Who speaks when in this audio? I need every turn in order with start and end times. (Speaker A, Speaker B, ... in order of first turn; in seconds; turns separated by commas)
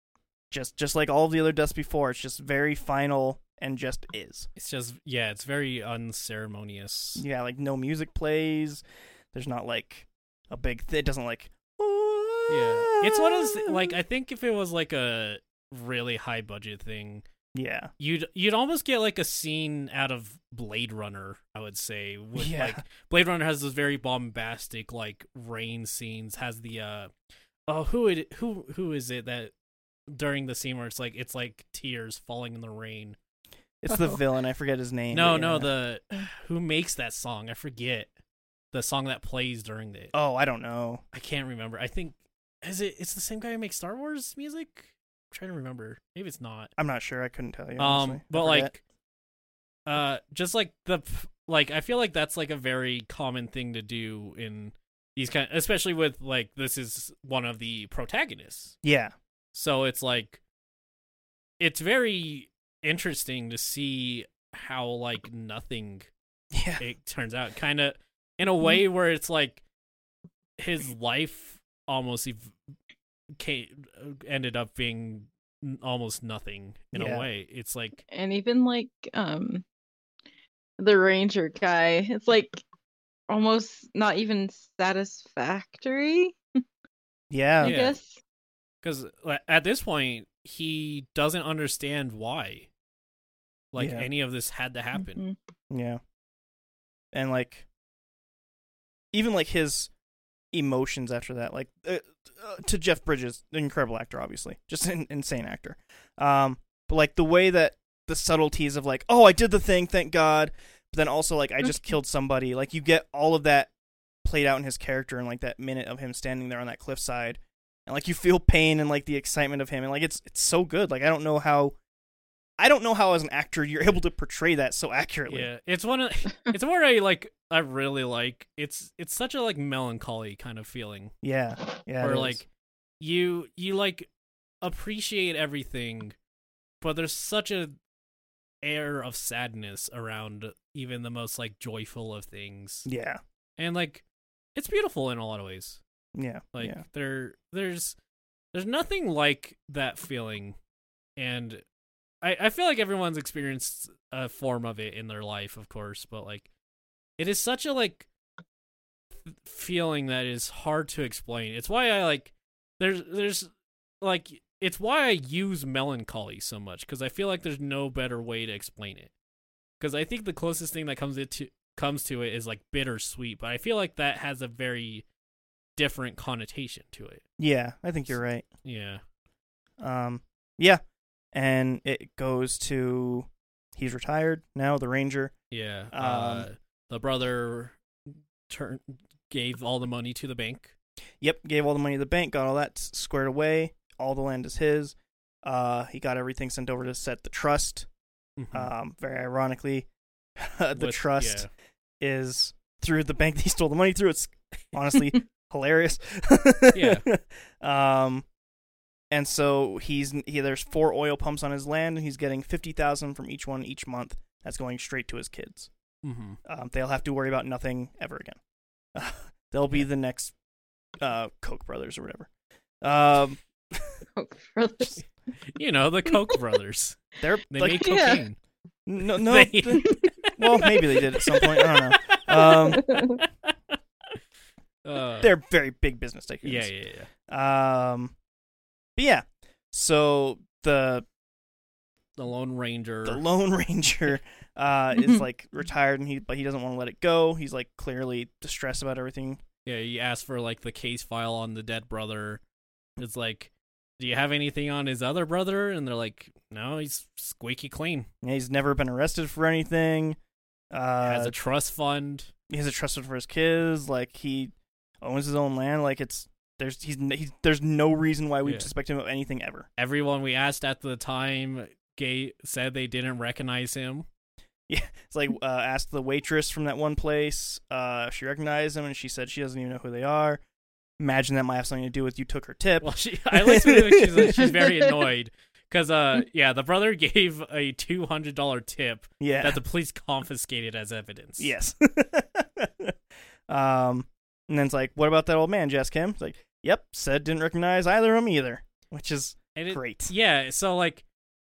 Speaker A: 0.5-4.5, Speaker B: 4.5-7.2, Speaker A: 7.2-14.0, Speaker B: 12.5-17.2, Speaker A: 17.5-17.9, Speaker B: 18.0-27.1, Speaker A: 22.4-22.8, Speaker B: 27.7-29.5, Speaker B: 30.1-33.2, Speaker A: 33.8-35.7, Speaker C: 33.9-34.2, Speaker B: 35.1-38.1, Speaker B: 38.7-40.1, Speaker A: 40.1-41.0, Speaker B: 41.1-46.7, Speaker A: 46.8-48.7, Speaker B: 47.8-48.8, Speaker B: 49.9-58.8, Speaker A: 58.8-59.1, Speaker B: 59.5-60.4, Speaker B: 61.6-66.1, Speaker A: 66.5-66.8, Speaker B: 66.8-69.6, Speaker B: 70.6-72.5, Speaker B: 73.4-78.0, Speaker A: 76.9-77.3, Speaker C: 78.1-79.6, Speaker C: 80.8-82.6, Speaker C: 83.3-86.4, Speaker A: 87.3-87.8, Speaker B: 87.6-88.0, Speaker C: 87.6-88.2, Speaker B: 88.8-92.7, Speaker B: 93.7-95.2, Speaker A: 93.8-94.1, Speaker C: 94.9-95.3, Speaker A: 95.7-96.0, Speaker A: 97.1-97.7, Speaker A: 99.1-99.9, Speaker A: 100.5-113.7, Speaker A: 114.2-121.8, Speaker A: 122.6-125.5, Speaker B: 125.3-131.1, Speaker A: 131.2-132.4, Speaker B: 132.0-132.5, Speaker B: 133.0-134.1, Speaker B: 134.6-136.1, Speaker B: 136.8-137.8, Speaker B: 138.6-142.9, Speaker A: 142.8-143.2, Speaker B: 143.6-144.0, Speaker B: 144.5-145.8, Speaker A: 146.1-146.8, Speaker B: 146.5-148.0, Speaker B: 148.5-150.6, Speaker B: 151.2-151.6, Speaker B: 152.2-156.5, Speaker B: 157.2-158.1, Speaker B: 159.2-163.5, Speaker B: 164.0-169.1, Speaker B: 169.8-175.0, Speaker B: 175.8-177.2, Speaker A: 177.4-178.4, Speaker B: 178.6-179.0, Speaker A: 179.8-180.8, Speaker A: 181.3-185.3, Speaker B: 185.5-190.7, Speaker A: 185.9-186.5, Speaker A: 191.2-197.9, Speaker B: 198.4-198.7, Speaker A: 198.5-201.5, Speaker B: 200.8-201.5, Speaker A: 202.0-208.2, Speaker B: 206.7-207.1, Speaker A: 209.1-215.7, Speaker B: 216.0-216.4, Speaker A: 216.4-218.4, Speaker A: 218.9-220.3, Speaker A: 221.0-222.3, Speaker A: 222.8-224.0, Speaker C: 224.2-225.0, Speaker B: 225.5-228.4, Speaker A: 227.2-227.9, Speaker C: 227.8-228.2, Speaker A: 228.8-232.8, Speaker B: 229.1-233.8, Speaker C: 229.8-230.1, Speaker C: 232.4-233.2, Speaker B: 234.8-235.3, Speaker A: 235.2-236.7, Speaker B: 236.4-237.1, Speaker A: 237.3-238.1, Speaker A: 238.9-241.1, Speaker B: 242.2-243.2, Speaker A: 243.0-249.4, Speaker C: 244.9-245.2, Speaker B: 249.6-252.4, Speaker B: 253.0-258.1, Speaker A: 258.2-260.2, Speaker A: 260.7-261.3, Speaker B: 261.0-262.3, Speaker A: 262.5-269.7, Speaker B: 268.4-268.7, Speaker B: 269.8-274.1, Speaker A: 274.7-280.4, Speaker A: 281.0-284.6, Speaker B: 282.8-291.5, Speaker A: 289.2-289.6, Speaker A: 291.4-292.9, Speaker A: 293.5-300.1, Speaker B: 299.6-301.0